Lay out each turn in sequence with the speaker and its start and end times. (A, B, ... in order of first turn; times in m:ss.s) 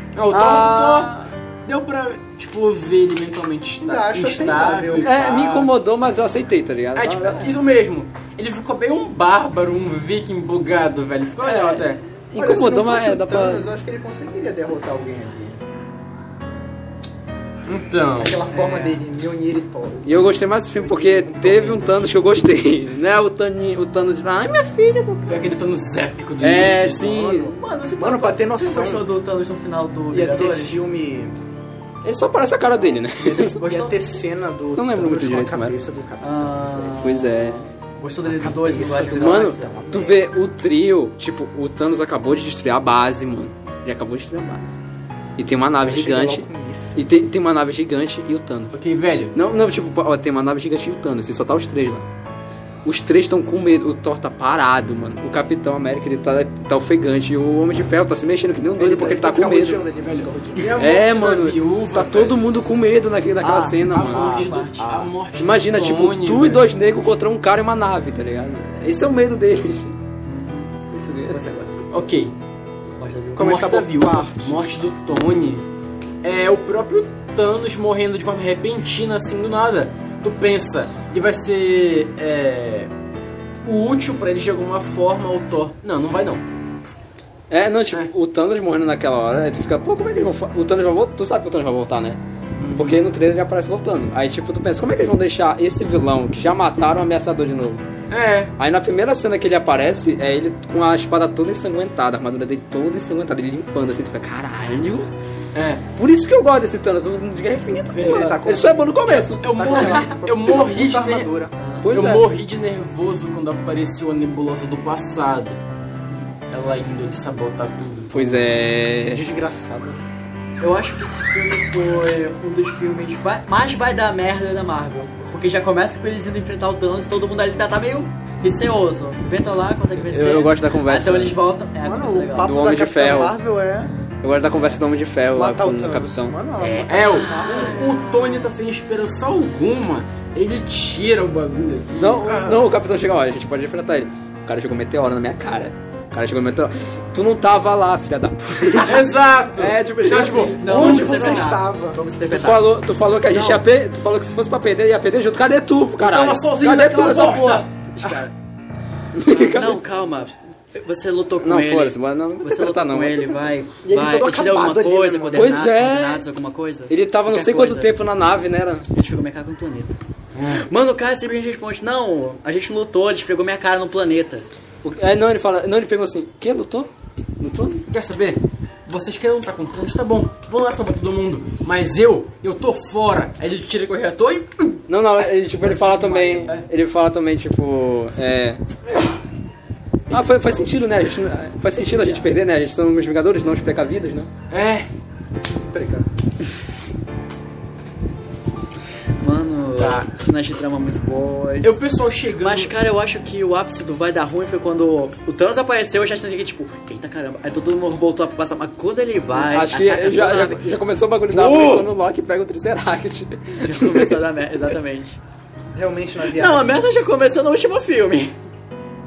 0:00.1-0:05.7 A
0:00.3-0:01.2 B
0:03.8-0:05.2 C
0:05.0-0:07.5 B
0:06.9-0:12.0 A
0:11.4-0:13.6 B
0:12.4-0:15.6 C
0:17.7-0:18.4 A
0:18.2-0:22.2 C
0:18.5-0:19.0 D
0:20.0-0:25.5 B
0:25.3-0:27.1 A
0:26.4-0:27.5 B
0:27.0-0:29.1 C
0:27.0-0:30.8 D
0:30.1-0:31.3 C
0:32.0-0:33.6 B
0:33.2-0:37.0 C
0:33.2-0:34.0 D
0:34.8-0:35.7 B
0:36.2-0:39.7 D
0:37.0-0:37.6 B
0:38.2-0:40.2 C
0:39.1-0:44.8 B
0:45.4-0:48.7 B
0:45.8-0:47.0 C
0:48.7-0:49.3 A
0:49.3-0:52.0 B
0:52.8-0:59.8 B
0:58.8-1:00.8 C
1:00.0-1:02.4 A
1:00.8-1:04.4 B
1:03.4-1:05.1 C
1:03.9-1:06.6 A
1:04.1-1:04.8 D
1:05.4-1:09.9 B
1:10.2-1:10.7 D
1:10.9-1:11.4 B
1:11.3-1:11.7 D
1:11.9-1:12.3 A
1:13.0-1:13.6 D
1:13.3-1:14.8 C
1:13.4-1:15.6 A
1:16.2-1:22.9 A
1:23.6-1:26.4 A
1:27.5-1:32.2 B
1:32.6-1:33.0 A
1:32.8-1:37.8 B
1:38.1-1:38.5 A
1:38.6-1:45.1 B
1:45.5-1:45.8 A
1:46.0-1:49.8 B
1:47.9-1:48.3 A
1:47.9-1:51.5 C
1:49.3-1:51.3 A
1:51.6-1:51.9 D
1:51.8-1:52.3 B
1:51.9-1:55.6 A
1:56.5-1:58.4 A
1:58.1-1:59.2 B
1:59.1-2:00.0 C
2:00.6-2:12.6 D
2:10.0-2:11.4 B
2:11.8-2:13.9 C
2:12.4-2:13.4 B
2:13.9-2:14.7 D
2:14.2-2:16.3 B
2:15.3-2:18.0 C
2:16.6-2:18.1 D
2:16.9-2:22.4 A
2:22.0-2:31.0 B
2:22.3-2:22.6 C
2:28.8-2:31.1 A
2:30.1-2:32.7 D
2:30.4-2:32.0 C
2:32.3-2:37.6 B
2:33.2-2:33.6 D
2:36.0-2:37.7 A
2:37.0-2:38.3 D
2:39.1-2:39.8 B
2:39.3-2:47.9 D
2:41.4-2:43.5 B
2:43.8-2:45.6 C
2:45.3-2:46.2 B
2:46.9-2:48.9 B
2:48.9-2:54.5 D
2:50.3-2:50.7 A
2:54.8-2:57.8 B
2:57.9-3:04.8 A
3:04.9-3:08.6 B
3:05.7-3:06.5 C
3:10.1-3:14.3 B
3:10.1-3:10.5 A
3:11.8-3:12.2 D
3:14.5-3:14.9 A
3:15.5-3:16.1 C
3:19.2-3:21.8 D
3:19.8-3:20.1 A
3:21.6-3:22.7 A
3:22.4-3:30.7 D
3:29.3-3:34.2 B
3:31.3-3:31.9 D
3:33.6-3:35.2 D
3:35.7-3:36.8 C
3:36.2-3:38.3 D